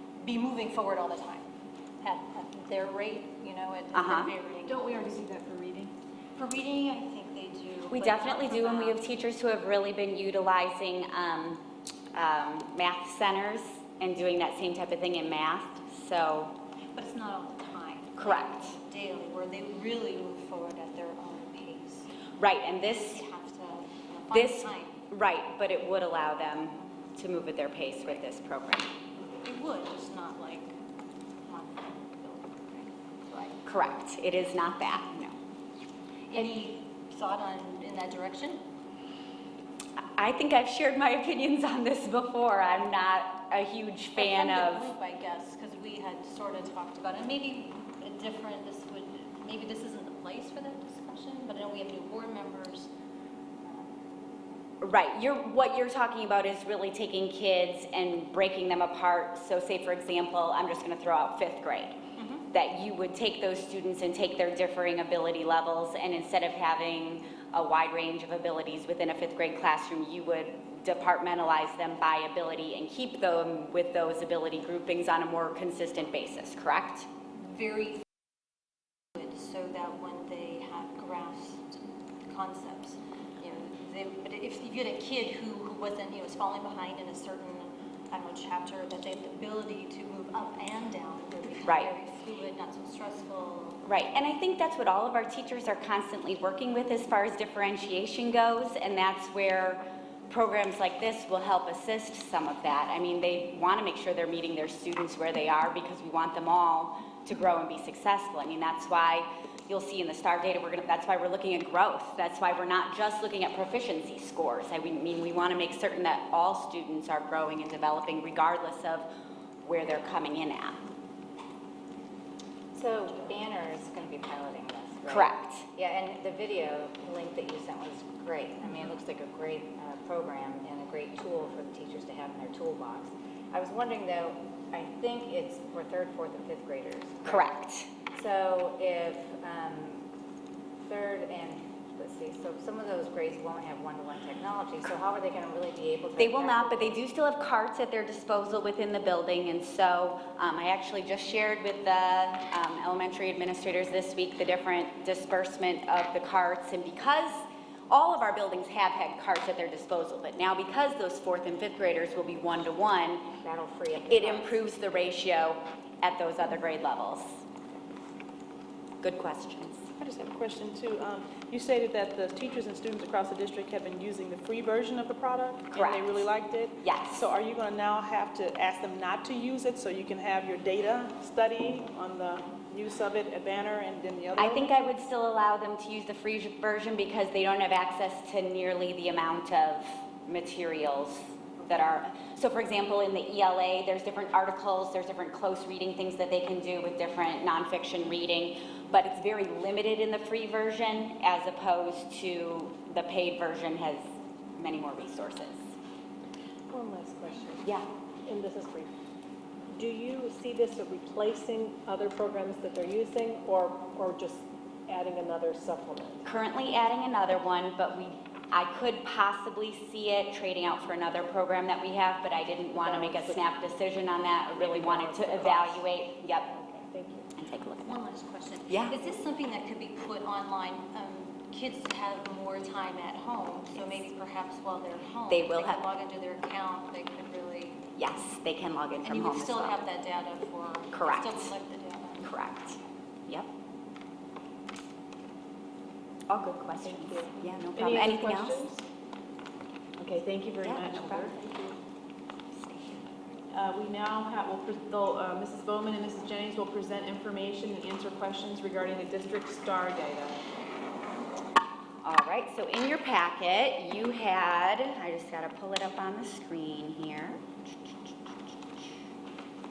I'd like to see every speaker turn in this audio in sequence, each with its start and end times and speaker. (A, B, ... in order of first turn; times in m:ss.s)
0:00.2-0:01.5 A
0:02.0-0:04.8 A
0:03.9-0:04.3 B
0:04.7-0:05.9 C
0:06.4-0:09.0 A
0:07.9-0:11.6 B
0:12.1-0:16.6 B
0:17.0-0:22.1 A
0:18.2-0:18.8 B
0:22.4-0:23.2 B
0:22.7-0:24.9 A
0:24.3-0:28.9 B
0:29.4-0:30.7 A
0:31.5-0:33.6 A
0:33.6-0:35.4 B
0:36.3-0:38.6 A
0:40.2-0:44.9 B
0:44.2-0:52.9 A
0:53.6-0:53.9 A
0:54.8-1:02.0 B
1:02.2-1:02.5 A
1:02.5-1:17.1 B
1:17.4-1:18.0 A
1:19.2-1:33.8 A
1:31.6-1:31.9 B
1:33.8-1:59.1 B
1:59.6-2:00.8 B
2:02.8-2:17.6 D
2:05.1-2:05.7 B
2:17.3-2:17.9 B
2:18.1-2:20.0 D
2:20.8-2:27.0 D
2:26.2-2:43.4 B
2:43.4-2:44.5 D
2:44.1-2:47.4 B
2:49.0-2:49.9 B
2:50.0-3:04.8 E
2:55.7-2:56.2 B
2:56.8-2:57.2 B
3:04.4-3:24.1 B
3:24.6-3:25.6 B
3:26.7-3:27.6 F
3:28.3-3:28.9 F
3:29.7-3:36.2 F
3:36.2-3:46.5 B
3:42.8-3:43.4 F
3:44.6-3:45.8 F
3:46.5-3:47.3 F
3:47.4-3:48.0 B
3:47.9-3:57.8 A
3:48.7-3:49.0 B
3:55.3-3:55.8 B
3:58.0-3:59.8 B
3:59.0-4:02.3 A
4:00.9-4:01.5 B
4:02.2-4:03.5 B
4:06.3-4:08.6 B
4:07.0-4:07.2 C
4:07.8-4:08.8 E
4:10.0-4:11.8 C
4:10.6-4:11.5 B
4:12.6-4:13.0 B
4:13.5-4:20.4 C
4:22.0-4:27.4 B